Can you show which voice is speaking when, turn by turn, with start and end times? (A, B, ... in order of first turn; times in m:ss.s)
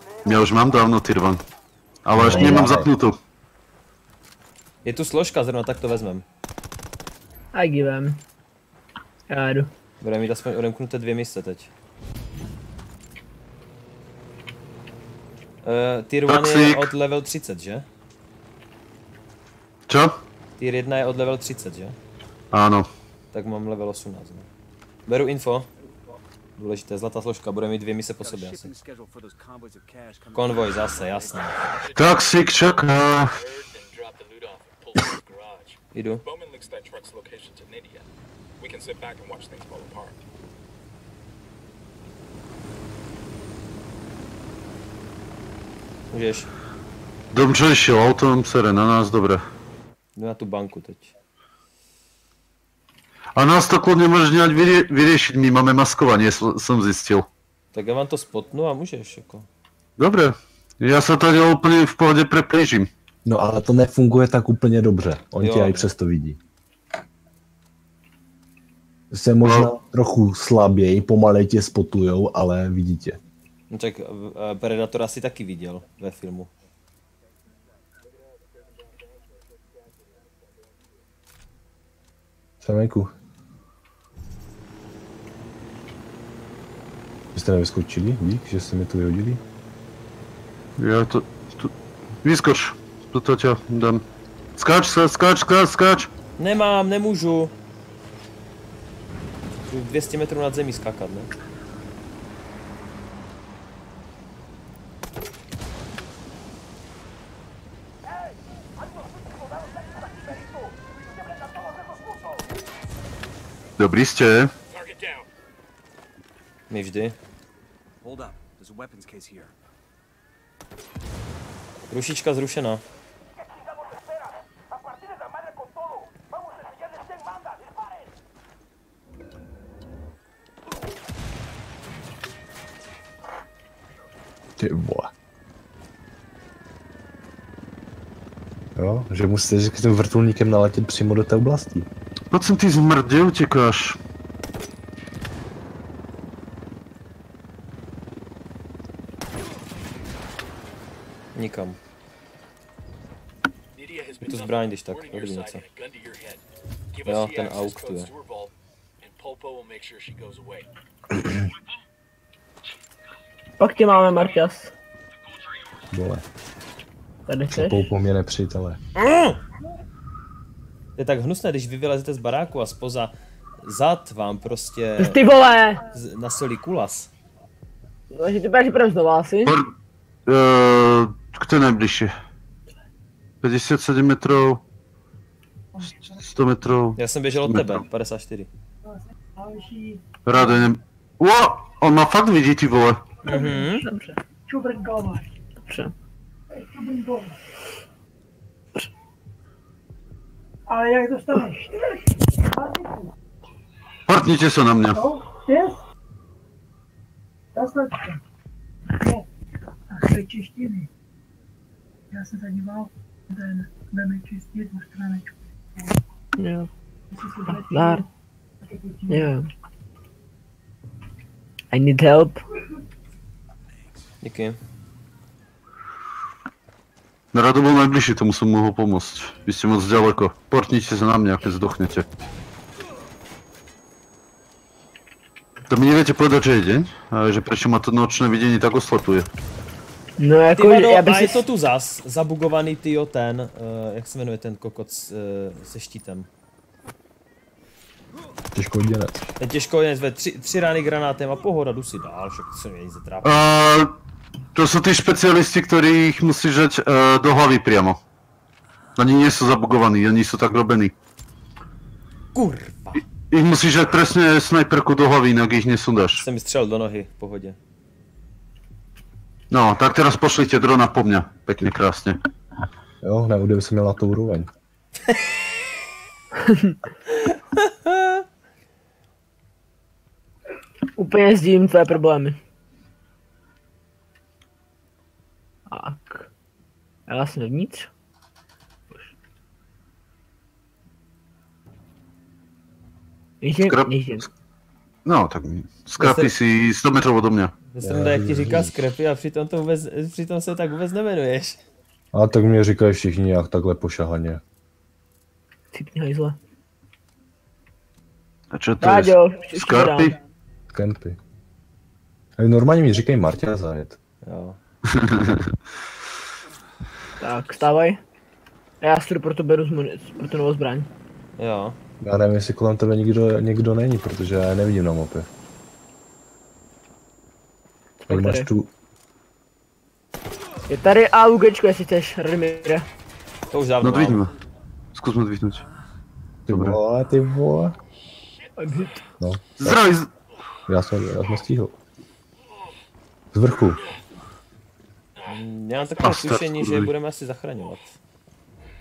0:00.2-0:01.4 A
0:02.0-0:03.2 A
0:02.1-0:02.9 B
0:02.3-0:02.6 C
0:04.8-0:06.2 D
0:07.5-0:08.2 C
0:09.3-0:09.7 C
0:10.0-0:11.7 D
0:15.6-0:17.8 D
0:16.3-0:16.8 A
0:19.9-0:20.2 A
0:20.6-0:22.0 D
0:22.5-0:22.9 A
0:23.3-0:24.5 D
0:25.1-0:25.7 D
0:26.6-0:28.7 D
0:28.2-0:31.9 E
0:30.3-0:31.6 D
0:31.7-0:38.1 F
0:31.9-0:33.3 A
0:35.9-0:36.2 D
0:38.6-0:40.2 F
0:46.1-0:46.5 D
0:47.3-0:49.4 A
0:50.2-0:51.1 D
0:53.4-0:57.3 A
0:57.7-0:59.5 D
1:00.0-1:02.9 A
1:03.2-1:06.4 B
1:05.4-1:05.9 D
1:09.1-1:13.2 B
1:09.4-1:09.7 A
1:13.7-1:16.5 D
1:22.6-1:23.1 B
1:27.3-1:29.4 B
1:30.8-1:31.7 A
1:32.2-1:34.0 A
1:34.6-1:36.1 A
1:36.4-1:37.5 D
1:39.6-1:41.3 D
1:53.8-1:54.5 A
1:54.7-1:55.3 F
1:56.7-1:57.2 D
1:58.0-1:59.5 E
2:01.9-2:02.8 D
2:14.6-2:15.1 B
2:18.8-2:21.9 B
2:22.3-2:24.0 A
2:31.3-2:31.8 D
2:33.7-2:40.7 F
2:34.2-2:35.6 D
2:37.0-2:38.1 D
2:43.6-2:44.7 C
2:45.9-2:46.2 B
2:47.3-2:47.8 C
2:47.5-2:48.8 B
2:49.0-2:49.4 D
2:51.0-2:55.2 D
2:55.0-2:55.8 C
2:55.9-2:57.1 D
2:58.1-2:59.6 C
2:59.4-2:59.7 A
3:00.3-3:02.1 A
3:03.4-3:04.6 A
3:06.2-3:07.8 A
3:07.0-3:08.5 D
3:09.4-3:10.4 G
3:10.2-3:13.0 A
3:13.2-3:14.2 C
3:13.3-3:13.8 D
3:14.5-3:15.2 G
3:15.6-3:15.9 C
3:16.6-3:17.3 G
3:20.7-3:23.0 G
3:24.1-3:25.0 A
3:24.9-3:25.8 G
3:27.5-3:28.2 G
3:28.9-3:29.2 G
3:29.9-3:30.9 G
3:32.1-3:35.3 G
3:36.4-3:36.7 C
3:37.1-3:38.0 G
3:37.6-3:38.0 C
3:38.7-3:39.3 G
3:39.1-3:39.4 C
3:41.7-3:42.4 C
3:43.7-3:44.1 E
3:44.2-3:44.6 D
3:47.3-3:52.0 A
3:55.7-3:59.3 A
4:00.2-4:01.4 C
4:00.6-4:06.3 D
4:08.5-4:09.2 B
4:09.4-4:13.4 D
4:13.2-4:13.9 A
4:14.5-4:18.0 A
4:19.0-4:20.9 A
4:22.3-4:23.0 D
4:23.3-4:26.2 A
4:26.2-4:27.6 D
4:29.5-4:32.2 A
4:33.0-4:34.5 B
4:36.4-4:36.8 C
4:37.3-4:38.2 D
4:41.0-4:42.4 C
4:45.7-4:46.3 C
4:47.1-4:47.9 C
4:53.4-4:54.2 C
4:53.6-4:53.9 A
4:55.0-4:57.5 A
4:56.0-4:56.3 D
4:57.7-5:01.6 D
4:57.8-4:58.8 B
5:02.1-5:04.4 B
5:05.7-5:06.4 C
5:08.5-5:10.1 A
5:08.8-5:10.1 C
5:10.7-5:11.2 B
5:12.4-5:14.0 B
5:14.2-5:14.6 D
5:14.9-5:15.5 A
5:17.2-5:18.0 C
5:18.8-5:20.9 C
5:21.4-5:21.8 D
5:22.0-5:25.3 B
5:28.0-5:28.5 C
5:28.1-5:28.7 B
5:30.7-5:32.8 C
5:33.5-5:34.2 D
5:33.8-5:34.3 A
5:34.9-5:35.6 A
5:36.5-5:37.8 B
5:36.5-5:36.8 A
5:38.6-5:39.0 C
5:39.2-5:39.8 B
5:39.6-5:40.1 A
5:40.7-5:41.7 B
5:43.3-5:43.8 B
5:45.3-5:48.0 D
5:46.0-5:46.9 A